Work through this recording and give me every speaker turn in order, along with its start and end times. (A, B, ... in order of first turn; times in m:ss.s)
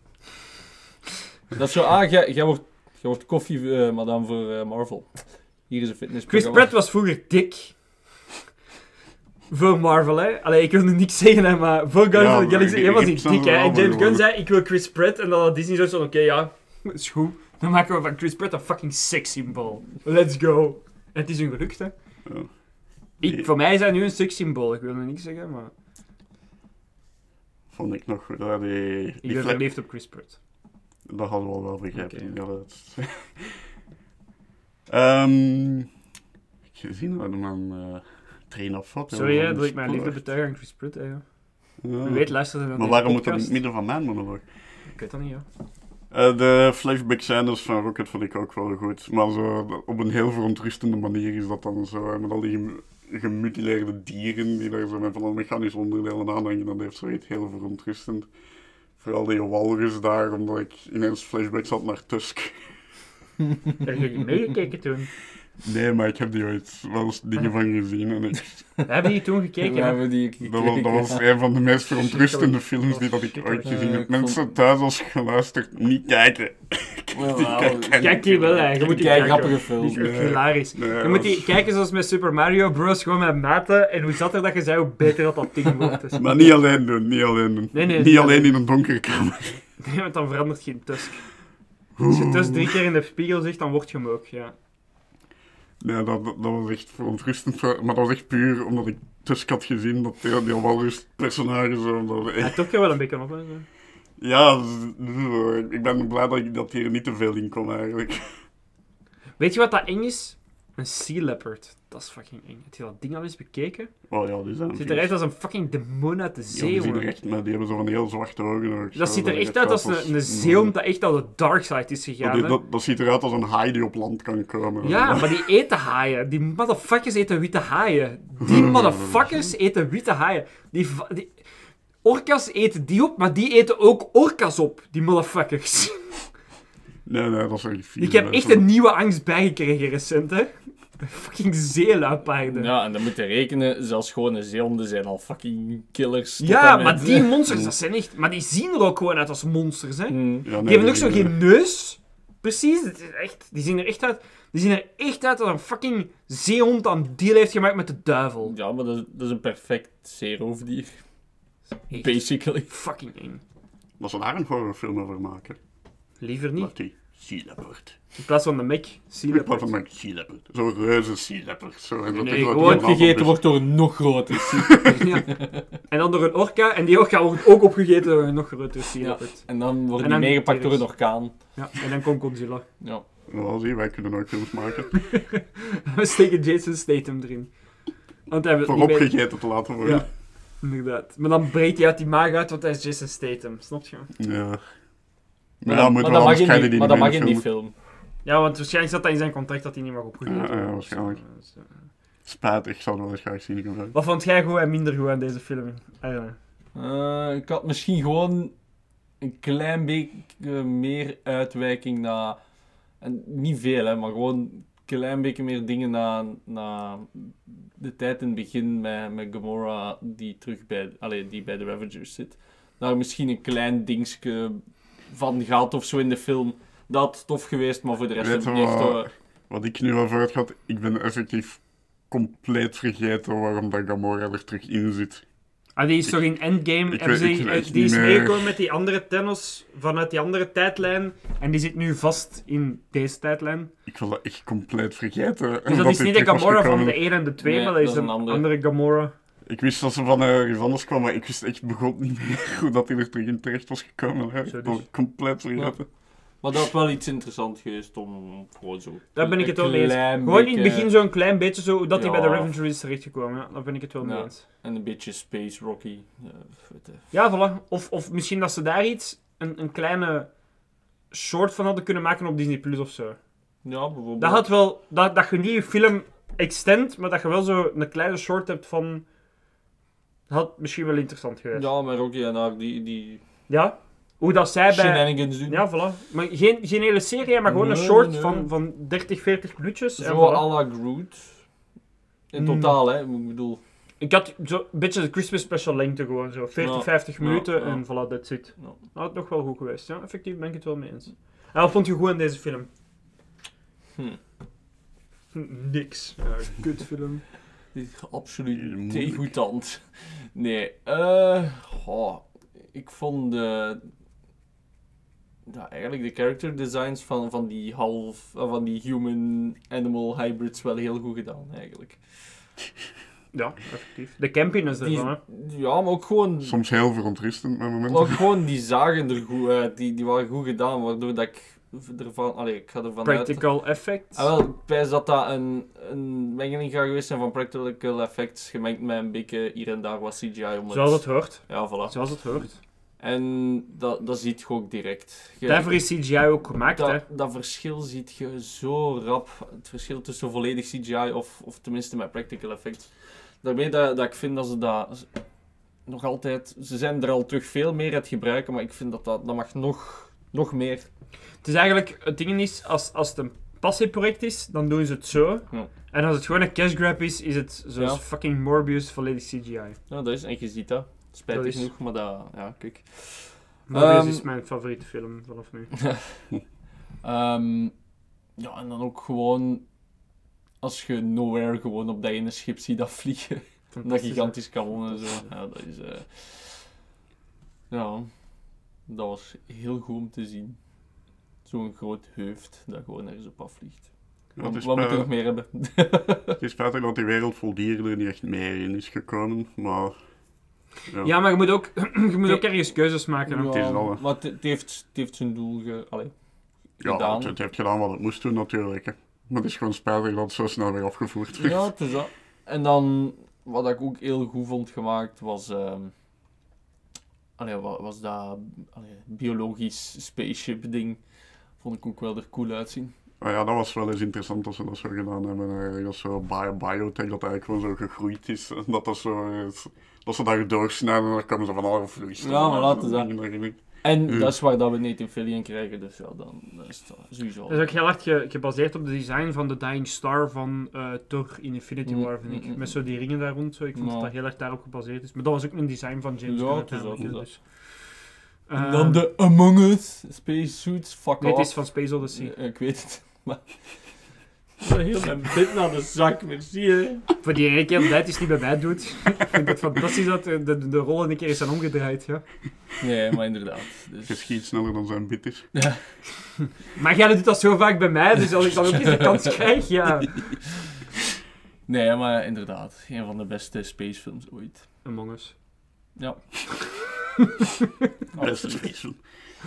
0:01.5-0:06.7 A
0:06.3-0:07.8 B
0:09.5-0:21.9 B
0:12.1-0:14.2 C
0:22.2-0:22.6 C
0:23.2-0:23.5 C
0:23.2-0:25.7 B
0:27.7-0:29.7 C
0:29.2-0:30.4 B
0:31.0-0:33.6 C
0:31.9-0:32.3 B
0:34.9-0:35.9 C
0:36.7-0:40.2 C
0:39.1-0:43.6 B
0:41.8-0:44.5 C
0:44.9-0:45.4 B
0:46.1-0:58.3 C
0:59.0-1:02.6 C
1:03.8-1:05.1 B
1:05.6-1:08.7 C
1:08.8-1:10.0 B
1:09.6-1:11.2 A
1:10.4-1:21.5 C
1:11.9-1:13.7 B
1:13.6-1:14.5 A
1:17.1-1:20.1 A
1:18.0-1:26.9 B
1:26.2-1:29.6 C
1:27.7-1:28.6 B
1:29.8-1:31.3 B
1:32.0-1:32.8 C
1:32.0-1:34.5 B
1:35.8-1:42.7 C
1:42.4-1:43.6 B
1:44.2-1:48.4 C
1:49.4-1:53.9 B
1:54.1-1:55.1 C
1:54.7-1:57.1 B
1:56.5-2:00.7 C
1:58.9-2:02.6 B
2:02.2-2:05.4 C
2:04.8-2:11.4 B
2:08.4-2:09.3 C
2:12.0-2:16.3 B
2:17.0-2:18.6 C
2:18.0-2:22.7 B
2:22.5-2:27.4 A
2:26.4-2:38.5 B
2:27.5-2:27.7 C
2:30.1-2:30.5 A
2:30.4-2:31.3 C
2:38.4-2:41.2 A
2:41.9-2:43.4 B
2:41.9-2:42.7 A
2:44.0-2:45.6 C
2:46.2-2:46.7 B
2:46.6-2:48.0 C
2:48.1-2:49.7 B
2:49.3-2:53.6 C
2:52.2-2:53.0 B
2:52.3-2:55.6 A
2:54.9-3:02.6 B
2:59.0-3:01.5 A
3:03.3-3:05.0 C
3:05.0-3:07.5 B
3:08.3-3:14.1 B
3:08.6-3:10.1 C
3:14.2-3:14.6 C
3:15.6-3:17.5 C
3:15.6-3:17.7 A
3:18.2-3:21.8 B
3:20.2-3:21.2 C
3:22.2-3:23.9 C
3:23.9-3:26.4 B
3:26.7-3:28.5 A
3:29.2-3:32.4 A
3:32.9-3:49.1 A
3:48.2-3:55.2 C
3:55.8-4:03.7 B
3:56.9-3:58.6 C
4:03.8-4:07.1 C
4:05.7-4:09.1 B
4:07.4-4:08.5 A
4:09.4-4:15.9 C
4:14.5-4:14.8 B
4:15.6-4:21.1 A
4:19.1-4:24.4 B
4:22.0-4:22.6 A
4:24.0-4:27.1 A
4:27.1-4:30.3 B
4:31.1-4:33.2 B
4:33.6-4:34.5 A
4:34.2-4:39.0 B
4:40.3-4:41.7 B
4:41.5-4:43.2 A
4:43.5-4:50.5 B
4:44.7-4:45.7 A
4:47.4-4:48.5 A
4:50.0-4:51.6 A
4:52.3-4:53.6 A
4:52.4-4:52.8 B
4:54.0-5:02.7 B
4:56.6-4:58.8 A
5:05.3-5:07.2 B
5:07.7-5:13.9 A
5:08.5-5:09.3 C
5:15.5-5:22.5 A
5:23.3-5:25.2 B
5:24.8-5:26.6 A
5:26.4-5:28.2 C
5:27.9-5:42.4 A
5:33.0-5:34.3 B
5:40.7-5:42.6 B
5:43.0-5:55.1 A
5:45.4-5:47.0 B
5:55.8-6:00.9 A
6:01.4-6:09.8 B
6:09.9-6:14.2 A
6:11.3-6:11.7 B
6:13.7-6:15.7 B
6:15.8-6:16.2 A
6:17.0-6:17.7 A
6:18.4-6:19.6 A
6:20.6-6:26.7 A
6:23.7-6:25.2 B
6:27.7-6:28.2 A
6:28.9-6:30.6 A
6:31.4-6:36.4 A
6:34.4-6:35.1 C
6:36.4-6:40.0 C
6:40.8-6:41.1 C
6:41.0-6:43.5 B
6:42.2-6:46.3 A
6:43.5-6:44.0 C
6:46.8-6:47.3 A
6:46.8-6:51.7 C
6:51.4-6:55.9 A
6:57.4-7:02.9 A
7:03.2-7:14.3 C
7:12.2-7:17.7 A
7:17.5-7:27.6 B
7:21.9-7:22.8 A
7:23.7-7:24.1 A
7:26.2-7:27.9 A
7:28.5-7:29.0 B
7:28.6-7:34.1 A
7:31.2-7:32.3 B
7:34.6-7:37.1 A
7:37.2-7:42.2 B
7:42.8-7:44.2 A
7:44.0-7:45.7 C
7:45.5-7:45.8 A
7:46.6-7:50.2 B
7:48.6-7:48.9 A
7:51.7-7:54.7 A
7:54.8-7:55.4 B
7:56.0-7:56.5 A
7:58.1-7:58.7 A
7:58.2-7:59.0 C